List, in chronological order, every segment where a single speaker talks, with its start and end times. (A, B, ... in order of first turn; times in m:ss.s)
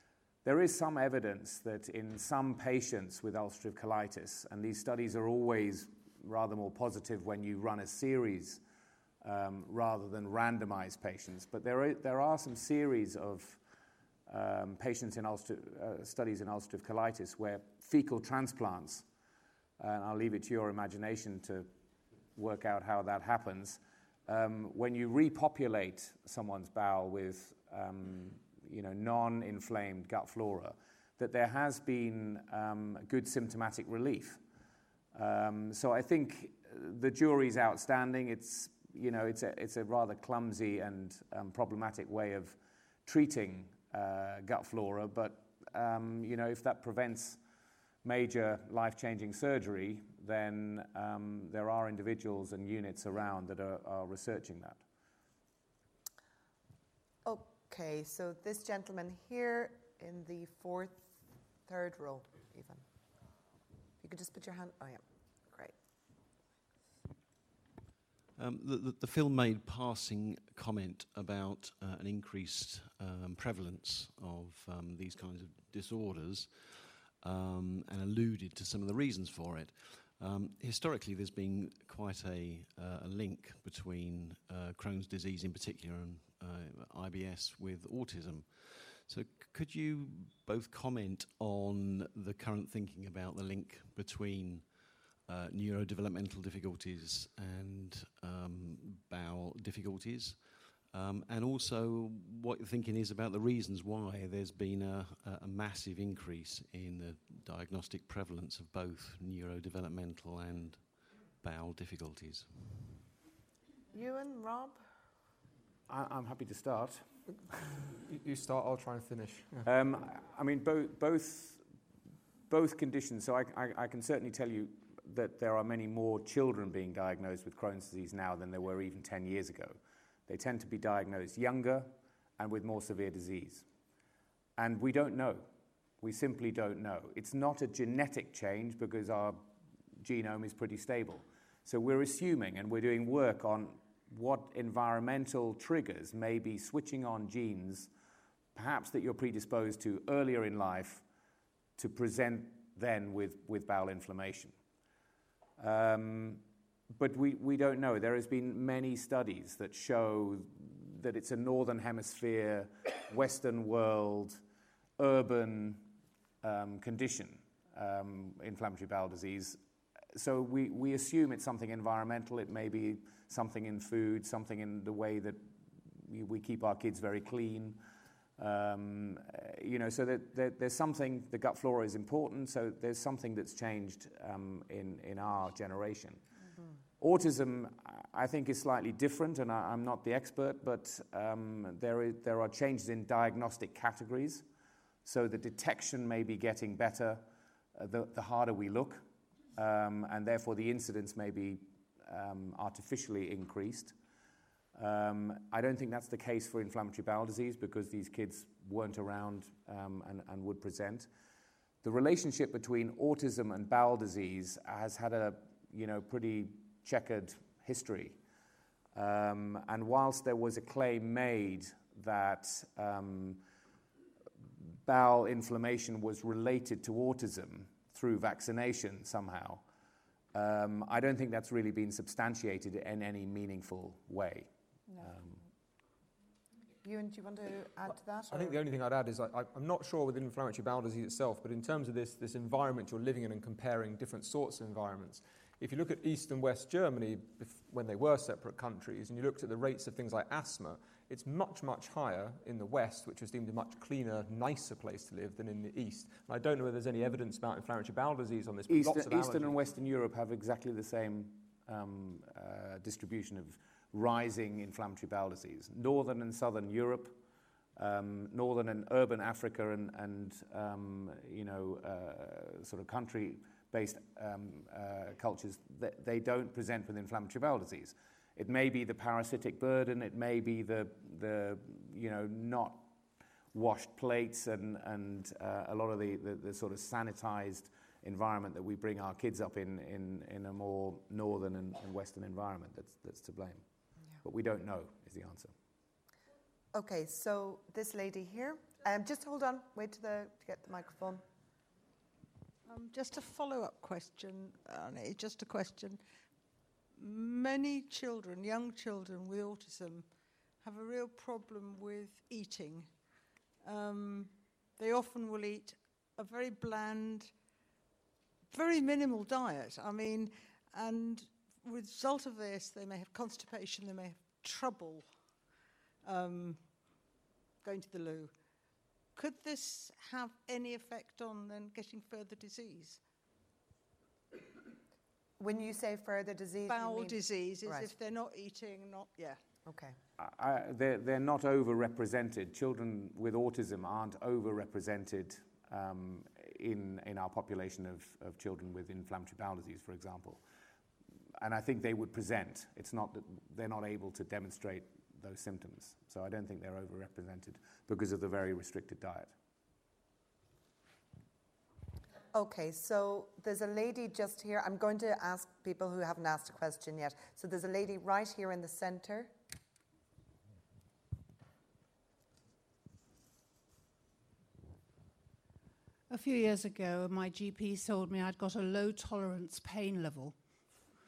0:00.4-0:08.6 A
0:09.2-0:13.6 A
0:14.3-0:19.0 A
0:19.8-0:21.7 A
0:22.4-0:34.4 A
0:35.1-0:47.4 A
0:48.0-0:54.8 A
0:57.2-1:02.8 B
1:04.0-1:05.7 B
1:08.4-1:53.0 C
1:53.9-1:54.8 B
1:55.9-1:57.0 A
1:58.0-1:59.7 D
1:59.6-2:01.6 A
2:02.5-2:13.6 A
2:14.6-2:15.5 A
2:16.0-2:19.5 A
2:20.0-2:27.9 A
2:28.5-2:31.0 A
2:31.8-2:34.5 A
2:35.6-2:44.4 A
2:45.0-2:49.6 A
2:50.1-2:57.8 A
2:58.4-3:06.3 A
3:07.0-3:14.4 A
3:15.0-3:19.0 A
3:19.5-3:23.9 A
3:24.7-3:31.1 A
3:31.8-3:38.2 A
3:38.9-3:43.4 A
3:44.6-3:49.6 A
3:50.3-3:54.5 A
3:55.0-3:55.4 A
3:56.8-3:58.6 B
3:58.3-4:19.6 D
4:18.7-4:27.2 A
4:27.8-4:42.9 A
4:43.5-4:53.6 A
4:54.2-4:55.5 A
4:56.7-5:01.2 B
5:02.6-5:06.0 E
5:07.0-5:10.1 E
5:10.6-5:12.9 E
5:13.6-5:17.3 E
5:18.5-5:25.1 E
5:26.0-5:26.7 E
5:27.6-5:28.3 E
5:29.2-5:33.0 E
5:35.4-5:37.9 B
5:36.6-5:39.4 E
5:39.6-5:40.0 B
5:40.2-5:50.4 A
5:51.4-5:59.3 A
6:02.3-6:09.3 B
6:16.1-6:20.4 F